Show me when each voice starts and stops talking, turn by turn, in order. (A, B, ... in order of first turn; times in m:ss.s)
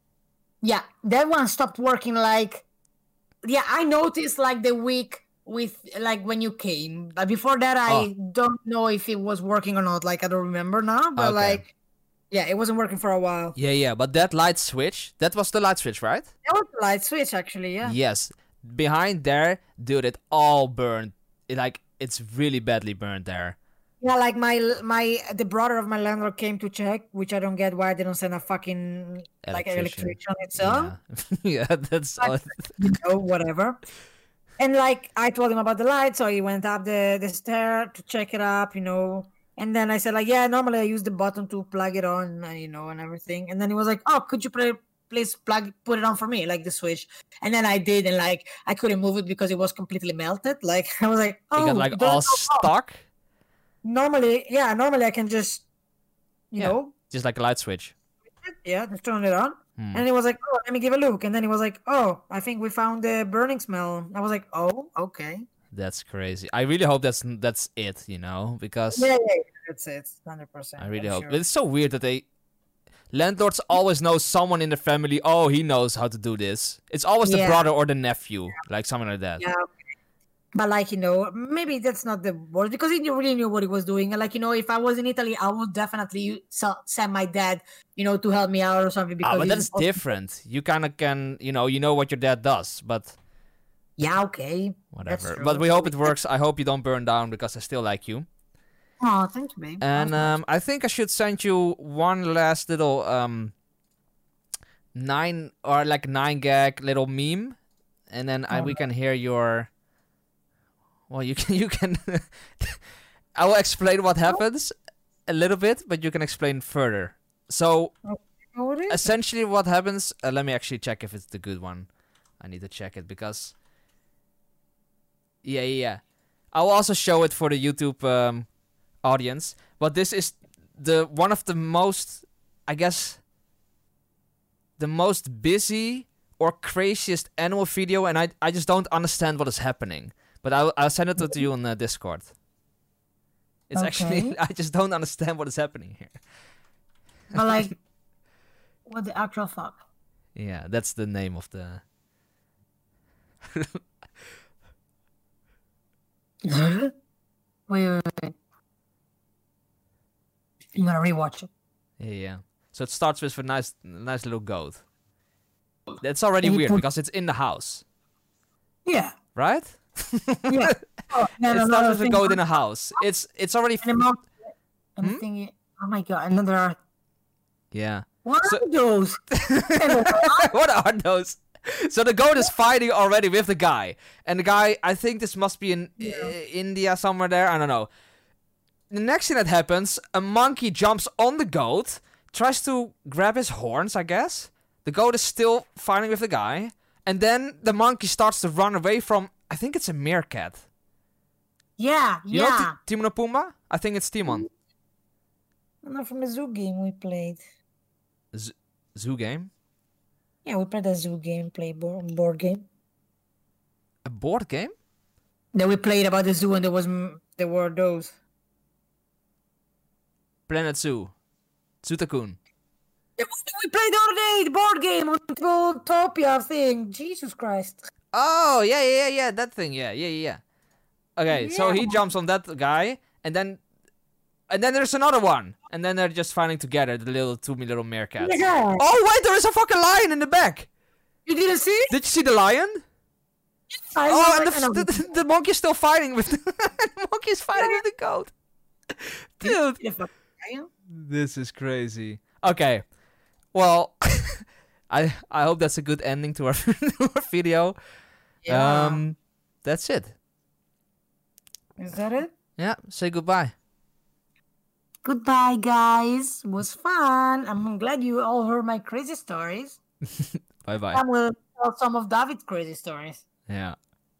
0:00.6-0:02.6 A
0:03.4-0:11.7 A
0:11.2-0:11.6 B
0:12.3-0:13.6 A
0:13.6-0:16.3 B
0:16.4-0:18.0 A
0:17.8-0:23.6 B
0:24.0-0:30.9 A
0:29.4-0:32.8 B
0:32.2-0:33.8 A
0:34.6-0:52.7 A
0:51.6-0:53.0 B
0:53.8-0:55.6 A
0:56.5-0:56.9 A
0:56.6-0:57.9 B
0:58.4-1:05.4 A
0:59.8-1:00.0 B
1:05.7-1:09.1 B
1:08.9-1:11.4 A
1:10.8-1:12.2 B
1:13.1-1:19.4 B
1:17.2-1:17.6 A
1:19.4-1:19.6 A
1:20.5-1:30.0 A
1:29.2-1:33.1 B
1:34.0-1:36.1 A
1:34.9-1:38.3 B
1:39.0-1:40.4 A
1:39.8-1:43.5 B
1:44.9-1:47.6 B
1:48.1-1:49.7 B
1:48.5-1:48.8 A
1:51.1-1:52.8 B
1:53.3-1:54.7 B
1:55.3-1:57.9 B
1:58.0-1:59.1 A
1:58.9-2:01.9 B
2:02.4-2:03.5 B
2:05.4-2:06.0 B
2:06.5-2:08.5 B
2:09.0-2:13.2 B
2:14.8-2:22.3 B
2:23.7-2:26.2 B
2:23.7-2:24.4 A
2:27.3-2:27.7 A
2:27.4-2:27.7 B
2:28.9-2:29.8 A
2:30.3-2:31.8 B
2:33.5-2:33.8 B
2:36.4-2:36.9 A
2:37.7-2:38.3 A
2:40.8-2:41.5 A
2:42.0-2:44.8 B
2:46.0-2:47.8 B
2:46.4-2:46.8 A
2:48.8-2:49.2 A
2:49.4-2:50.8 B
2:50.5-2:52.4 A
2:51.4-2:53.8 B
2:53.8-2:54.4 A
2:55.0-2:56.8 A
2:57.7-2:58.6 B
2:58.2-3:00.5 A
2:59.3-3:07.9 B
3:06.0-3:06.3 A
3:08.9-3:20.6 B
3:21.8-3:22.8 A
3:22.3-3:24.4 B
3:25.8-3:27.4 A
3:28.3-3:29.5 B
3:30.4-3:32.6 A
3:34.0-3:34.7 B
3:35.5-3:38.1 A
3:40.5-3:41.1 B
3:41.8-3:42.4 B
3:43.2-3:47.8 A
3:48.1-3:50.4 B
3:51.2-3:53.6 B
3:51.3-3:52.0 A
3:54.5-4:00.7 B
3:58.2-3:58.8 A
4:01.2-4:01.9 A
4:01.9-4:02.8 B
4:03.7-4:05.1 A
4:04.1-4:08.3 B
4:07.5-4:07.8 A
4:08.9-4:09.8 B
4:09.4-4:10.7 A
4:10.9-4:12.8 B
4:13.5-4:17.8 B
4:18.4-4:19.0 A
4:18.5-4:20.1 B
4:21.8-4:22.3 A
4:22.6-4:23.5 B
4:25.0-4:29.8 A
4:30.2-4:31.0 B
4:30.9-4:33.2 A
4:33.5-4:33.8 B